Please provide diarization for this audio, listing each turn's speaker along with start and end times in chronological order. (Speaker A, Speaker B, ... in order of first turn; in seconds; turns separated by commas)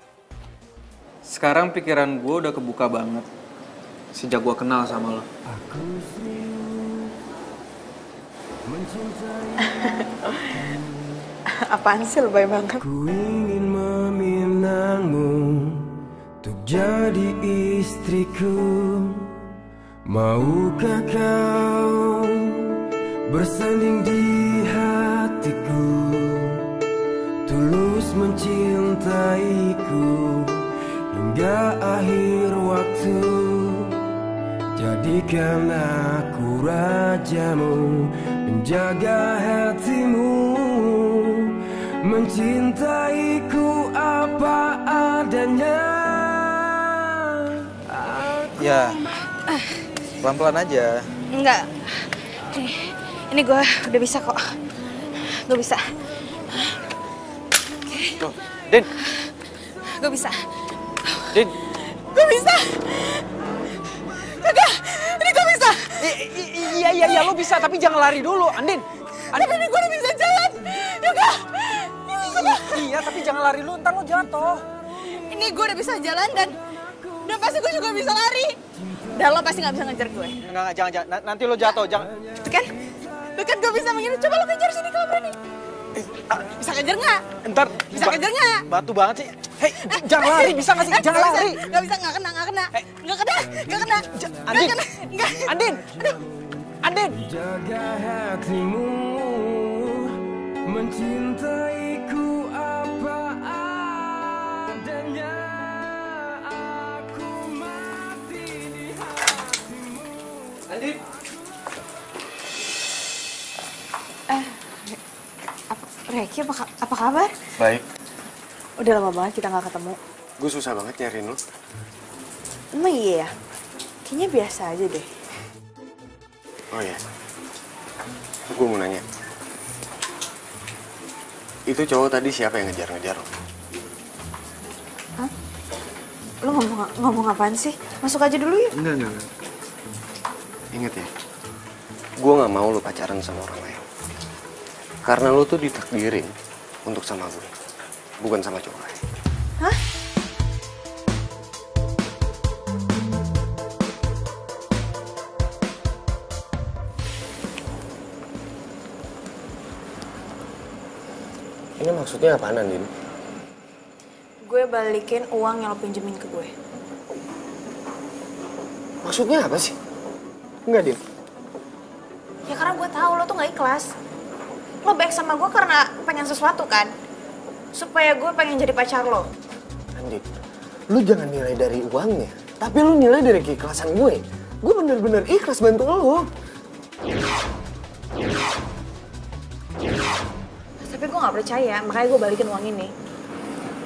Speaker A: 1.3-3.2, Speaker A: 4.1-5.3, Speaker B: 5.5-7.1, Speaker B: 8.7-10.0, Speaker C: 9.7-10.0, Speaker C: 11.6-12.8, Speaker B: 12.8-15.8, Speaker B: 16.4-19.3, Speaker B: 20.1-22.8, Speaker B: 23.3-26.6, Speaker B: 27.4-34.0, Speaker B: 34.8-48.8, Speaker A: 48.5-49.0, Speaker A: 50.2-51.0, Speaker C: 51.4-51.7, Speaker C: 52.5-54.4, Speaker C: 55.5-55.8, Speaker C: 57.9-58.1, Speaker A: 58.2-58.9, Speaker C: 59.9-60.4, Speaker C: 61.0-61.3, Speaker C: 62.0-63.2, Speaker C: 64.1-66.1, Speaker A: 66.0-69.6, Speaker C: 67.0-67.3, Speaker C: 69.3-72.8, Speaker A: 72.2-74.6, Speaker C: 75.1-76.5, Speaker C: 77.2-78.5, Speaker C: 79.1-80.4, Speaker A: 80.4-82.1, Speaker C: 82.4-82.7, Speaker C: 83.3-85.3, Speaker A: 86.0-86.5, Speaker C: 86.6-87.3, Speaker A: 87.4-91.7, Speaker C: 87.9-88.6, Speaker C: 89.8-96.1, Speaker B: 93.4-94.7, Speaker A: 94.4-94.8, Speaker B: 95.2-96.4, Speaker A: 95.4-95.8, Speaker A: 96.8-97.1, Speaker B: 97.1-110.8, Speaker C: 114.3-115.0, Speaker C: 115.7-117.3, Speaker C: 118.8-120.0, Speaker D: 120.4-121.4, Speaker C: 122.8-123.3, Speaker C: 124.0-125.1, Speaker D: 126.7-127.0, Speaker D: 128.5-129.0, Speaker D: 131.7-133.3, Speaker C: 136.4-138.7, Speaker D: 138.8-139.2, Speaker D: 140.7-141.1, Speaker D: 142.2-143.8, Speaker D: 145.1-146.3, Speaker D: 146.8-147.5, Speaker D: 148.2-149.0, Speaker D: 161.8-162.9, Speaker C: 164.4-166.5, Speaker D: 169.0-169.7, Speaker D: 170.7-171.0, Speaker C: 172.5-173.9, Speaker C: 174.8-176.9, Speaker C: 177.7-179.3, Speaker D: 179.9-180.2, Speaker D: 180.9-186.2, Speaker C: 190.8-192.9